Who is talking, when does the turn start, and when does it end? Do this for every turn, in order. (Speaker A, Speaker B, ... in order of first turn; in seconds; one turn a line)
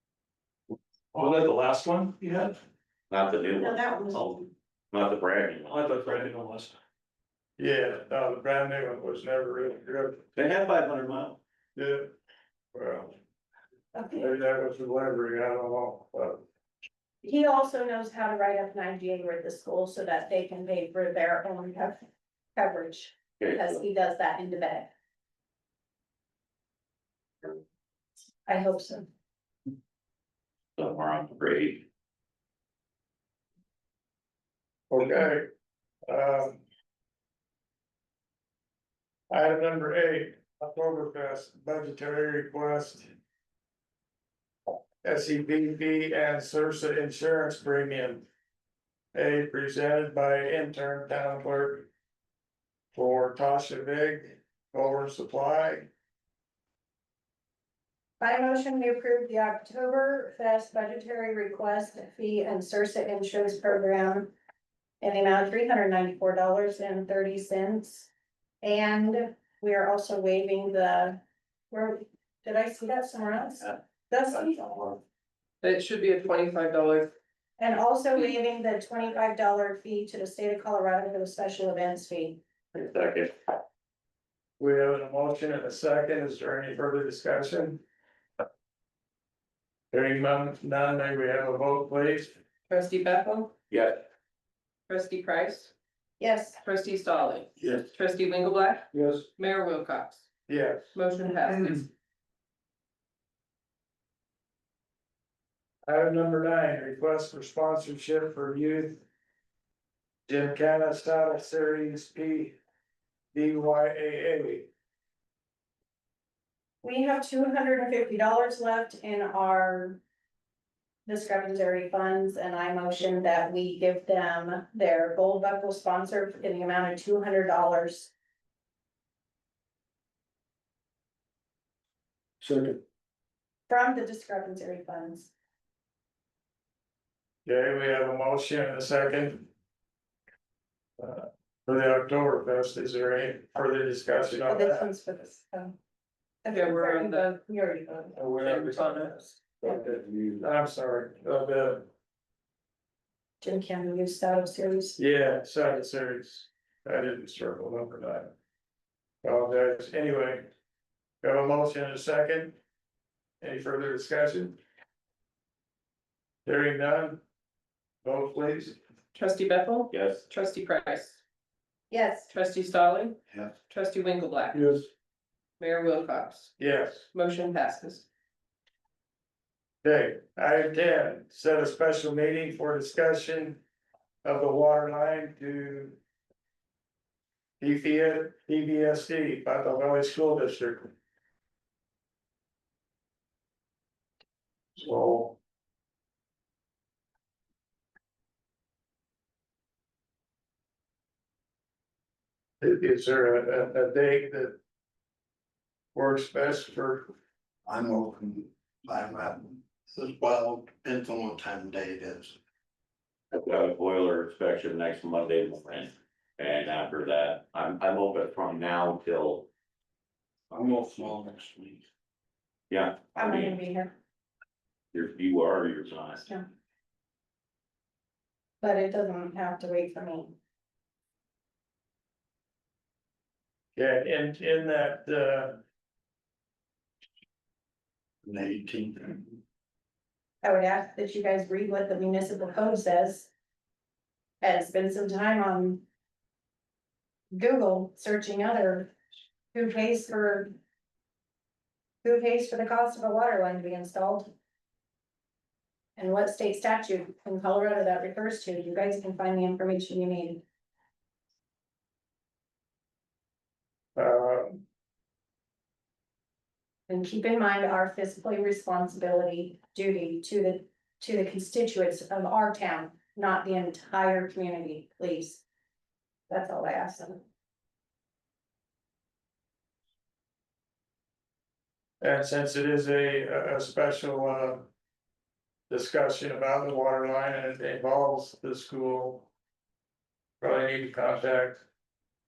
Speaker A: 1.1-2.5
Speaker B: 3.1-6.1
Speaker C: 3.6-4.2
Speaker A: 5.7-6.7
Speaker D: 7.6-10.2
Speaker B: 10.3-11.4
Speaker D: 11.8-12.1
Speaker D: 12.7-13.1
Speaker C: 13.9-14.2
Speaker D: 14.2-16.4
Speaker C: 17.2-22.0
Speaker C: 22.6-24.9
Speaker B: 23.4-23.8
Speaker C: 28.5-29.1
Speaker B: 30.8-31.9
Speaker D: 34.9-35.5
Speaker D: 36.1-36.6
Speaker D: 39.3-43.1
Speaker D: 45.0-48.3
Speaker D: 49.1-51.9
Speaker D: 52.9-55.9
Speaker C: 58.2-64.3
Speaker C: 65.0-68.1
Speaker C: 68.6-75.0
Speaker E: 75.6-77.1
Speaker C: 77.6-82.4
Speaker B: 82.7-83.4
Speaker D: 84.6-87.8
Speaker D: 89.9-92.4
Speaker E: 92.7-93.5
Speaker B: 93.7-94.0
Speaker E: 94.9-95.7
Speaker C: 96.2-96.6
Speaker E: 96.6-100.2
Speaker D: 100.5-100.9
Speaker E: 100.9-101.9
Speaker D: 105.8-109.0
Speaker D: 110.3-112.5
Speaker D: 113.3-114.7
Speaker C: 116.8-120.0
Speaker C: 121.0-128.1
Speaker F: 132.4-132.8
Speaker C: 133.7-135.3
Speaker D: 137.4-139.5
Speaker D: 141.0-144.9
Speaker C: 144.5-145.8
Speaker C: 146.4-149.7
Speaker E: 146.5-147.3
Speaker D: 148.2-151.9
Speaker E: 148.4-149.2
Speaker C: 153.4-155.0
Speaker D: 155.0-158.3
Speaker D: 159.2-160.5
Speaker D: 161.2-162.6
Speaker D: 163.4-164.6
Speaker D: 166.4-167.2
Speaker D: 168.0-168.8
Speaker E: 169.1-171.2
Speaker B: 169.9-170.2
Speaker C: 171.9-172.3
Speaker E: 172.3-174.8
Speaker D: 174.5-174.9
Speaker E: 175.6-176.5
Speaker D: 176.6-177.1
Speaker E: 177.1-178.1
Speaker D: 179.8-183.6
Speaker D: 184.2-186.0
Speaker D: 187.6-190.9
Speaker D: 194.8-195.4
Speaker D: 202.6-204.6
Speaker D: 205.9-207.1
Speaker F: 207.7-212.4
Speaker B: 213.3-219.5
Speaker F: 220.5-221.8
Speaker B: 222.7-223.6
Speaker C: 223.2-223.9
Speaker B: 224.9-226.3
Speaker C: 228.6-230.4
Speaker D: 233.8-235.6
Speaker F: 238.2-239.2
Speaker C: 240.4-243.3
Speaker C: 244.4-245.8
Speaker C: 247.3-248.9
Speaker C: 249.5-250.6
Speaker C: 252.0-254.3
Speaker C: 256.0-260.4
Speaker D: 264.0-264.6
Speaker C: 266.9-275.4
Speaker C: 276.3-277.2
Speaker D: 282.0-284.7
Speaker D: 285.7-289.3
Speaker D: 290.4-291.6